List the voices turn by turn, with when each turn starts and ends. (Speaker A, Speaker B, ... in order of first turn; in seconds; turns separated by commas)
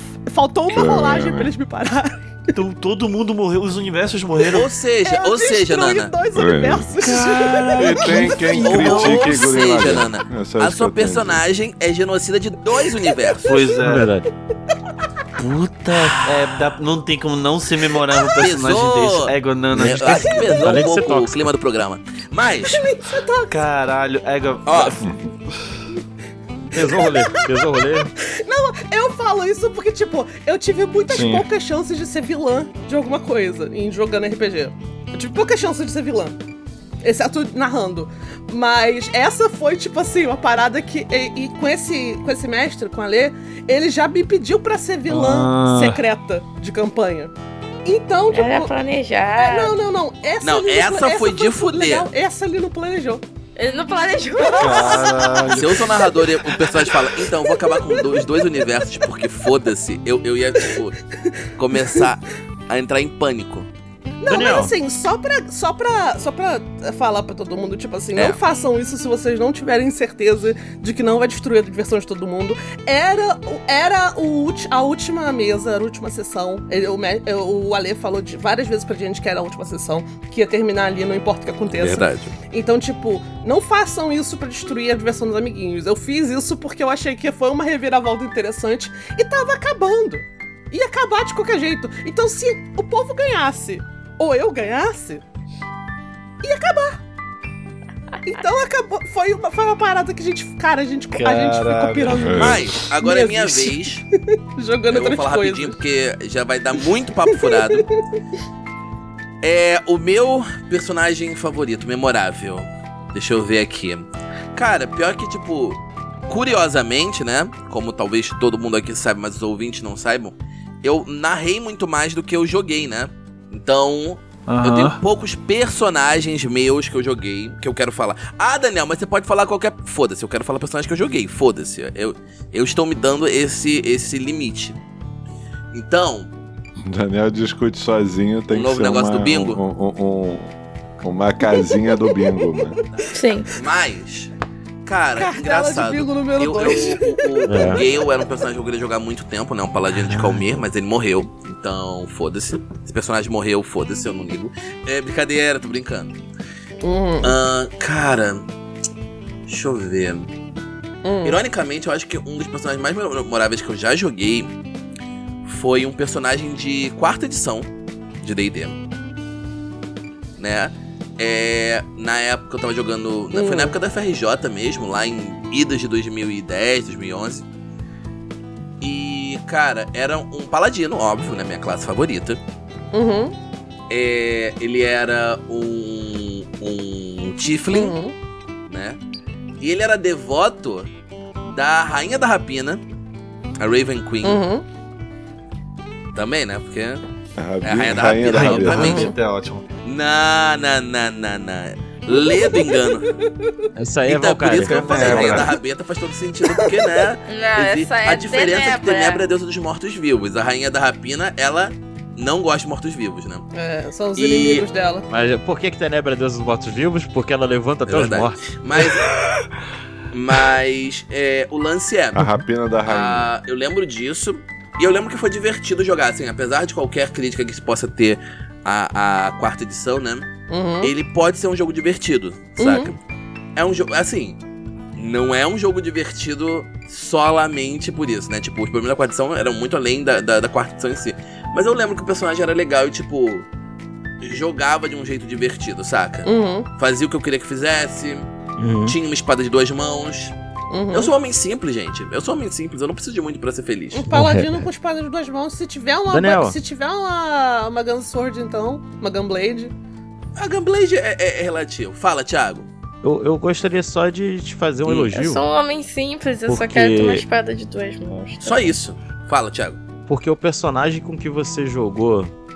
Speaker A: 0.3-2.2, Speaker B: 0.7-1.5, Speaker C: 2.5-4.7, Speaker D: 4.5-6.1, Speaker A: 5.0-8.9, Speaker B: 6.3-7.0, Speaker C: 7.0-9.2, Speaker B: 7.8-11.4, Speaker D: 8.6-13.6, Speaker A: 13.2-13.5, Speaker C: 13.4-14.1, Speaker E: 13.8-14.3, Speaker C: 15.4-20.4, Speaker D: 18.3-22.9, Speaker A: 20.1-21.0, Speaker E: 20.5-21.4, Speaker A: 22.6-23.5, Speaker C: 23.5-25.2, Speaker D: 24.7-25.0, Speaker E: 26.7-28.1, Speaker A: 26.7-36.4, Speaker C: 31.1-31.5, Speaker A: 37.0-47.3, Speaker C: 45.1-46.0, Speaker A: 47.9-48.7, Speaker F: 48.3-49.8, Speaker A: 49.4-53.2, Speaker D: 50.4-52.1, Speaker F: 53.6-55.4, Speaker A: 54.4-58.6, Speaker C: 54.6-55.9, Speaker D: 55.5-61.0, Speaker D: 61.6-63.7, Speaker A: 61.8-62.0, Speaker A: 64.2-95.2, Speaker E: 64.3-64.7, Speaker D: 81.7-82.4, Speaker A: 96.4-97.0, Speaker A: 98.2-104.0, Speaker C: 101.1-102.5, Speaker B: 102.2-102.7, Speaker D: 102.3-104.0, Speaker A: 104.6-105.8, Speaker D: 104.9-107.9, Speaker A: 107.3-107.8, Speaker D: 109.4-134.8, Speaker C: 124.5-125.0, Speaker D: 135.7-136.3, Speaker B: 136.8-142.8, Speaker D: 138.5-139.6, Speaker A: 141.5-142.6, Speaker D: 142.9-144.3, Speaker F: 143.1-143.5, Speaker D: 144.8-156.2, Speaker A: 145.1-148.2, Speaker E: 147.5-147.8, Speaker E: 150.0-150.6, Speaker A: 156.8-157.4, Speaker D: 157.2-158.5, Speaker D: 159.5-160.3, Speaker A: 161.0-161.4, Speaker D: 161.2-164.5, Speaker D: 165.4-167.7, Speaker D: 168.2-168.8, Speaker D: 170.4-177.5, Speaker A: 173.3-173.8, Speaker D: 178.8-182.4, Speaker A: 182.9-183.3, Speaker D: 183.9-188.0, Speaker A: 187.7-188.2, Speaker D: 188.7-189.0, Speaker D: 189.6-190.9, Speaker D: 191.4-192.8, Speaker D: 193.6-194.4, Speaker A: 194.2-194.7, Speaker D: 196.1-197.0, Speaker B: 197.4-199.1, Speaker D: 197.6-199.1, Speaker C: 198.2-199.7, Speaker A: 198.8-199.1, Speaker D: 199.8-203.1, Speaker A: 202.2-203.7, Speaker E: 203.8-205.5, Speaker D: 204.1-213.4, Speaker C: 204.6-205.6, Speaker A: 206.4-207.1, Speaker F: 207.3-209.3, Speaker A: 213.5-215.1, Speaker D: 214.2-214.7, Speaker E: 215.1-218.6, Speaker D: 217.9-219.1, Speaker D: 220.1-222.3, Speaker B: 222.1-223.3, Speaker D: 222.9-230.3, Speaker A: 230.5-230.9, Speaker D: 230.8-233.0, Speaker A: 232.6-232.9, Speaker D: 233.6-234.4, Speaker D: 235.0-243.5, Speaker D: 244.2-248.3, Speaker A: 246.2-246.7, Speaker E: 248.6-249.0, Speaker D: 248.8-250.3, Speaker A: 250.7-251.1, Speaker D: 250.9-254.1, Speaker A: 253.9-259.7, Speaker E: 254.1-254.7, Speaker E: 256.1-256.6, Speaker D: 260.4-262.7, Speaker E: 263.0-265.4, Speaker F: 265.1-268.8, Speaker E: 266.5-267.2, Speaker D: 268.4-269.8, Speaker E: 270.1-272.3